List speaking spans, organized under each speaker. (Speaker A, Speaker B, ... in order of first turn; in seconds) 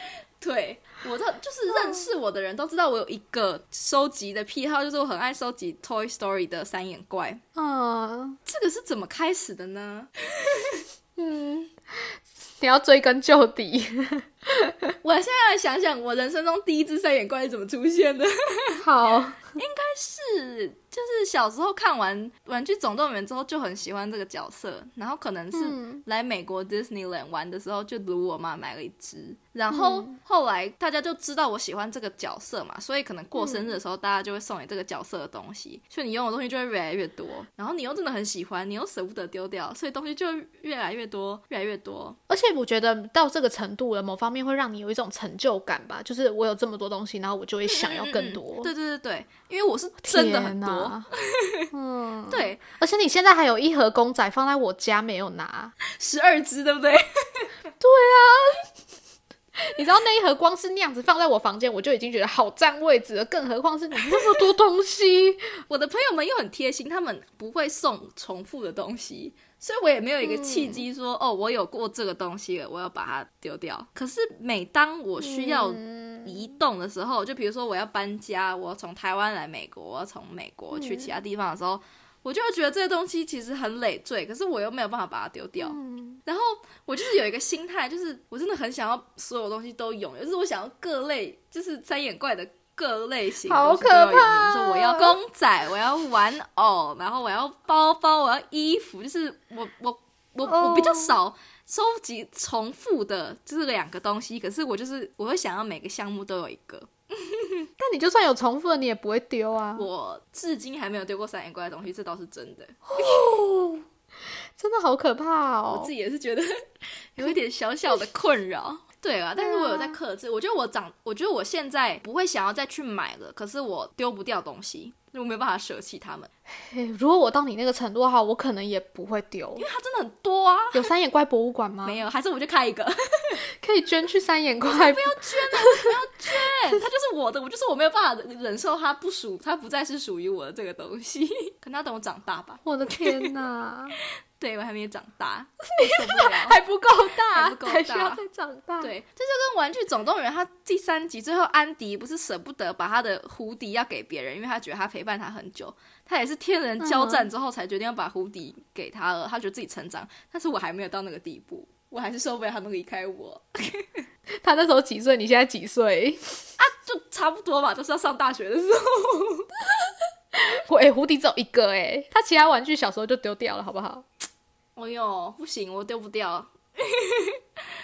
Speaker A: 0.4-7.4, 8.4-10.8, 15.0-18.8, 19.6-42.2, 47.6-51.7, 52.3-52.6, 55.8-57.5, 64.1-64.4, 65.7-107.7, 109.8-113.2, 115.7-126.3, 129.6-130.9, 131.8-133.4, 134.7-143.3, 144.4-146.6, 147.1-148.2, 148.8-164.0, 166.6-169.5, 174.8-177.4
Speaker B: 7.5-8.4, 11.2-14.9, 18.8-19.6, 25.5-26.0, 29.7-30.2, 33.4-33.7, 42.3-48.7, 50.0-51.1, 51.7-55.7, 57.8-58.7, 59.5-65.5, 70.2-70.8, 75.2-76.3, 80.7-81.1, 85.6-86.2, 93.5-95.2, 100.4-101.1, 107.8-109.9, 112.9-113.8, 114.6-115.9, 119.4-120.0, 126.5-129.7, 130.7-132.0, 133.6-135.9, 142.6-144.0, 145.7-148.9, 156.8-157.3, 164.4-166.5, 170.3-174.1